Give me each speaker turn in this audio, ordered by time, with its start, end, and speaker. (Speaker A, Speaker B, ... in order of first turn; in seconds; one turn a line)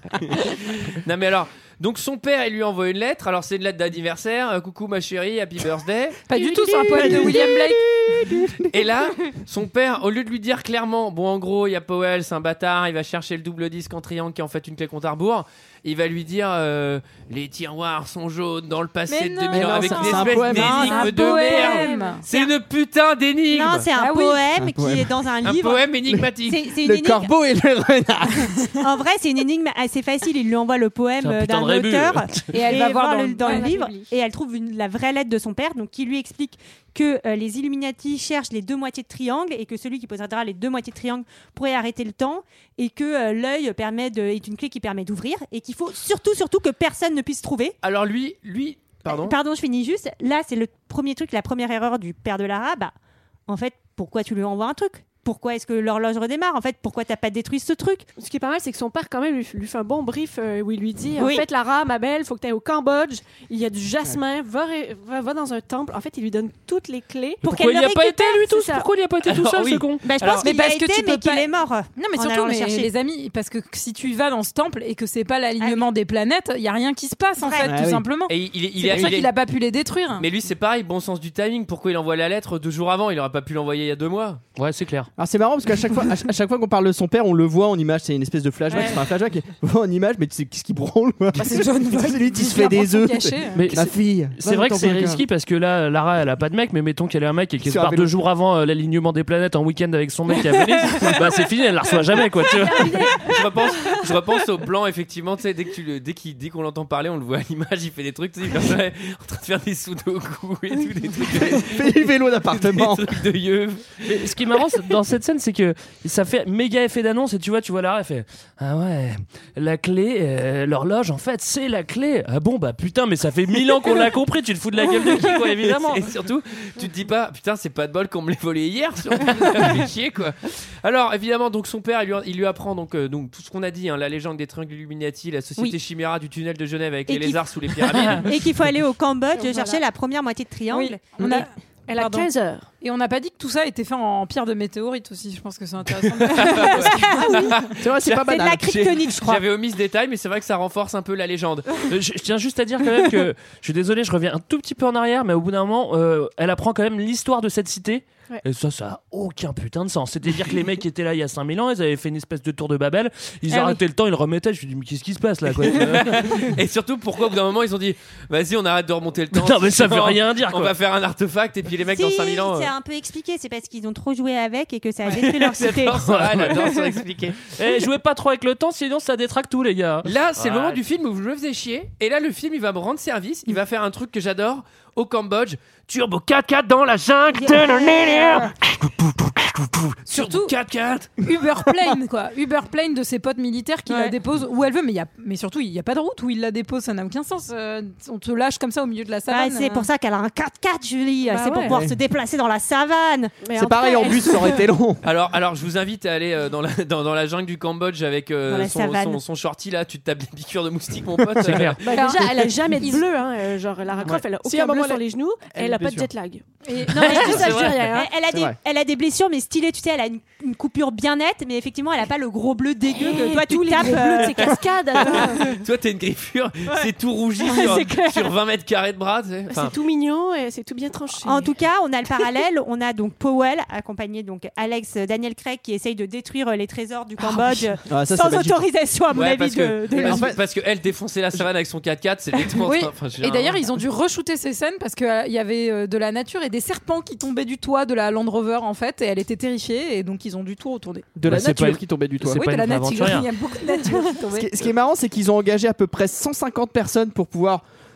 Speaker A: 0.5-6.3
Speaker B: 6.3-8.1
Speaker C: 6.4-7.5
Speaker D: 7.0-7.4
Speaker D: 8.1-8.7
Speaker A: 8.7-23.9
Speaker B: 19.1-22.2
Speaker D: 19.5-20.9
Speaker C: 20.6-22.5
Speaker C: 23.5-25.9
Speaker B: 23.9-24.5
Speaker D: 24.6-25.1
Speaker A: 25.4-26.6
Speaker D: 26.1-28.8
Speaker C: 26.4-27.3
Speaker C: 28.8-47.8
Speaker E: 31.2-32.5
Speaker B: 32.5-34.0
Speaker A: 47.8-49.4
Speaker C: 49.0-52.9
Speaker C: 53.5-58.1
Speaker F: 58.2-67.4
Speaker C: 61.2-61.4
Speaker C: 67.4-68.4
Speaker E: 67.4-70.1
Speaker F: 68.4-68.9
Speaker A: 69.2-70.5
Speaker C: 70.0-72.9
Speaker B: 70.4-80.2
Speaker C: 75.6-75.8
Speaker C: 77.4-77.7
Speaker D: 77.6-78.0
Speaker A: 78.3-79.3
Speaker A: 80.2-84.4
Speaker E: 84.6-85.1
Speaker D: 85.2-95.2
Speaker B: 91.3-93.7
Speaker E: 93.5-103.1
Speaker D: 97.6-98.1
Speaker B: 102.6-103.2
Speaker A: 103.2-114.1
Speaker D: 111.2-113.1
Speaker E: 114.0-126.1
Speaker A: 125.3-138.3
Speaker C: 137.1-141.5
Speaker F: 139.3-139.8
Speaker B: 140.7-142.2
Speaker F: 141.9-142.7
Speaker B: 142.8-147.6
Speaker A: 146.1-151.8
Speaker C: 146.8-149.4
Speaker D: 147.8-149.0
Speaker E: 151.8-166.5
Speaker C: 163.5-163.8
Speaker A: 165.7-172.7
Speaker E: 169.3-170.7
Speaker C: 171.9-176.2
Speaker A: 175.1-177.5
Speaker E: 176.0-176.6
Speaker E: 177.5-180.8
Speaker A: 180.0-191.1
Speaker B: 190.1-190.5
Speaker B: 191.2-199.9
Speaker C: 193.9-194.1
Speaker C: 199.3-203.4
Speaker F: 201.2-201.8
Speaker D: 201.6-201.9
Speaker F: 203.4-204.7
Speaker D: 203.5-205.0
Speaker A: 205.0-211.8
Speaker C: 208.5-209.2
Speaker E: 211.4-211.8
Speaker B: 211.8-213.1
Speaker F: 211.8-218.1
Speaker D: 214.1-216.1
Speaker B: 216.6-217.8
Speaker C: 216.9-225.4
Speaker E: 217.1-217.3
Speaker D: 218.3-218.6
Speaker F: 222.9-225.6
Speaker A: 225.2-229.7
Speaker C: 227.4-228.1
Speaker F: 227.6-228.0
Speaker F: 229.5-231.6
Speaker C: 231.2-240.3
Speaker D: 237.8-238.6
Speaker A: 239.1-243.8
Speaker D: 239.9-240.4
Speaker B: 242.6-251.1
Speaker D: 251.2-252.4
Speaker E: 251.2-253.3
Speaker B: 252.3-254.5
Speaker D: 254.3-257.6